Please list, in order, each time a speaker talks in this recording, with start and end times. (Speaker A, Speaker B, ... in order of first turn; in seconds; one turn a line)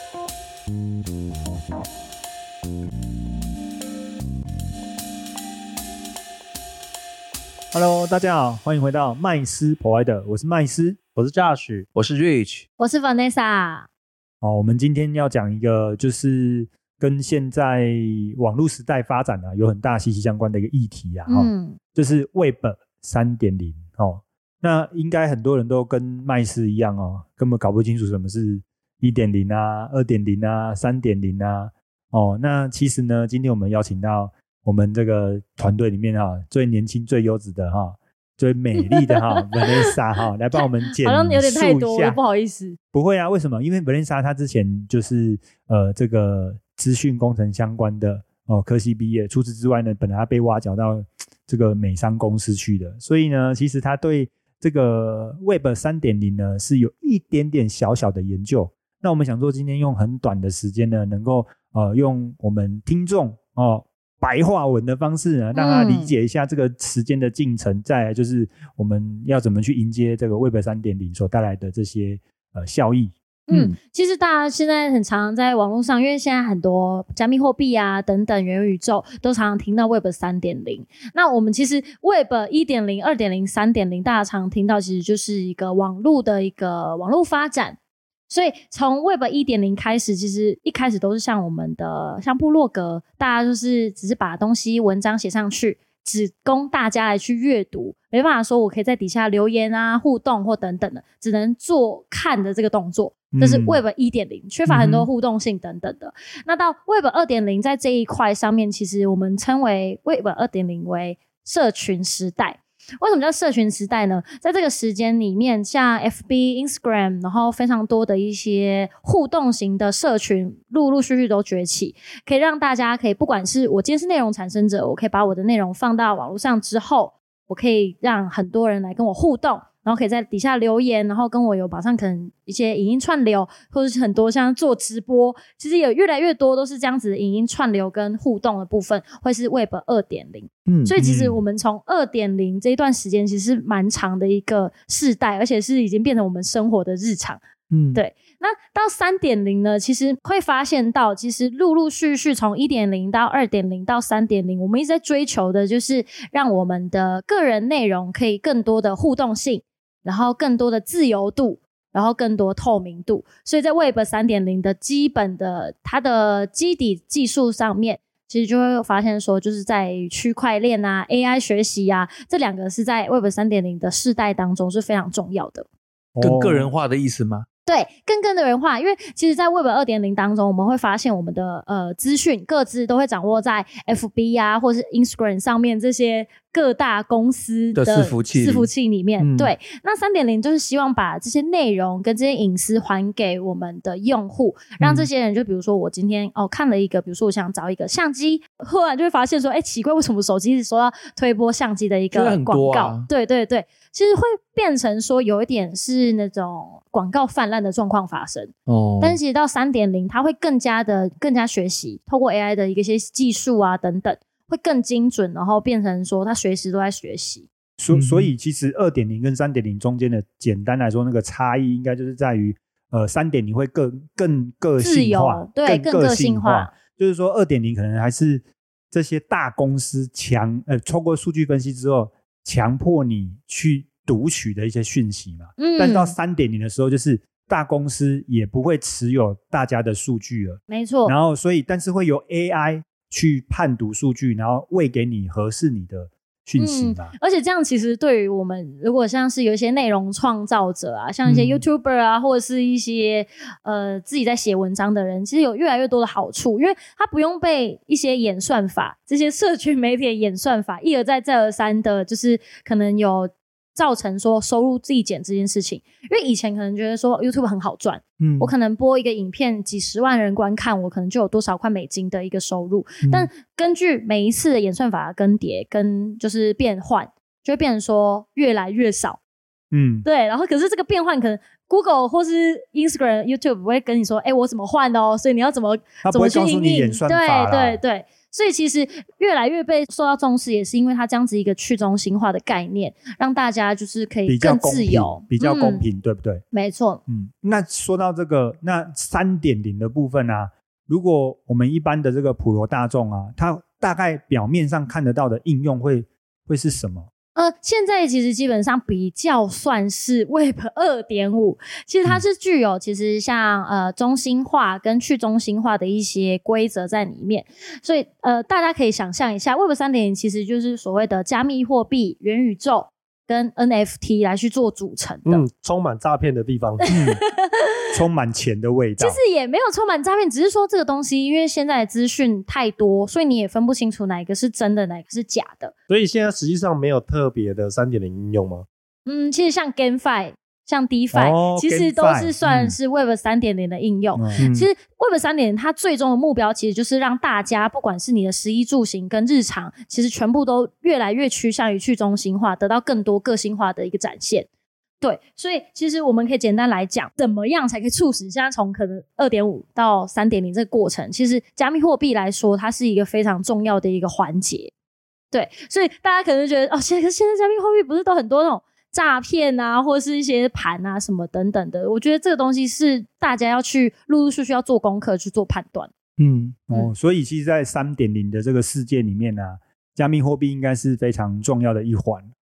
Speaker A: 7.7-11.0
Speaker B: 11.2-11.9
Speaker C: 11.9-12.7
Speaker D: 12.8-13.9
Speaker A: 14.4-42.2
Speaker D: 21.3-21.8
Speaker D: 38.8-39.9
Speaker D: 41.0-42.8
Speaker A: 42.9-73.1
Speaker D: 65.5-66.2
Speaker D: 73.5-87.8
Speaker D: 88.3-147.4
Speaker A: 103.3-103.8
Speaker A: 104.7-105.0
Speaker C: 140.7-140.9
Speaker C: 147.7-148.0
Speaker D: 147.9-175.7
Speaker A: 176.2-176.7
Speaker C: 176.2-177.5
Speaker D: 177.7-217.5
Speaker C: 187.8-188.7
Speaker C: 189.2-189.5
Speaker C: 202.1-203.1
Speaker C: 208.7-209.2
Speaker A: 217.8-247.1
Speaker C: 217.9-218.3
Speaker D: 224.8-226.7
Speaker D: 235.6-236.2
Speaker D: 240.7-241.2
Speaker D: 246.6-279.2
Speaker C: 268.2-268.5
Speaker A: 279.7-280.1
Speaker D: 280.0-295.9
Speaker A: 286.0-287.8
Speaker A: 294.3-296.4
Speaker D: 296.5-297.0
Speaker A: 297.1-307.1
Speaker D: 307.4-325.4
Speaker B: 325.2-326.9
Speaker D: 326.8-327.8
Speaker A: 326.9-327.2
Speaker A: 327.9-329.2
Speaker D: 329.0-335.7
Speaker B: 335.9-338.7
Speaker D: 339.1-354.5
Speaker A: 341.1-342.4
Speaker C: 342.4-342.8
Speaker A: 344.1-344.5
Speaker D: 355.0-364.7
Speaker D: 365.3-375.9
Speaker C: 376.2-376.6
Speaker A: 376.7-382.3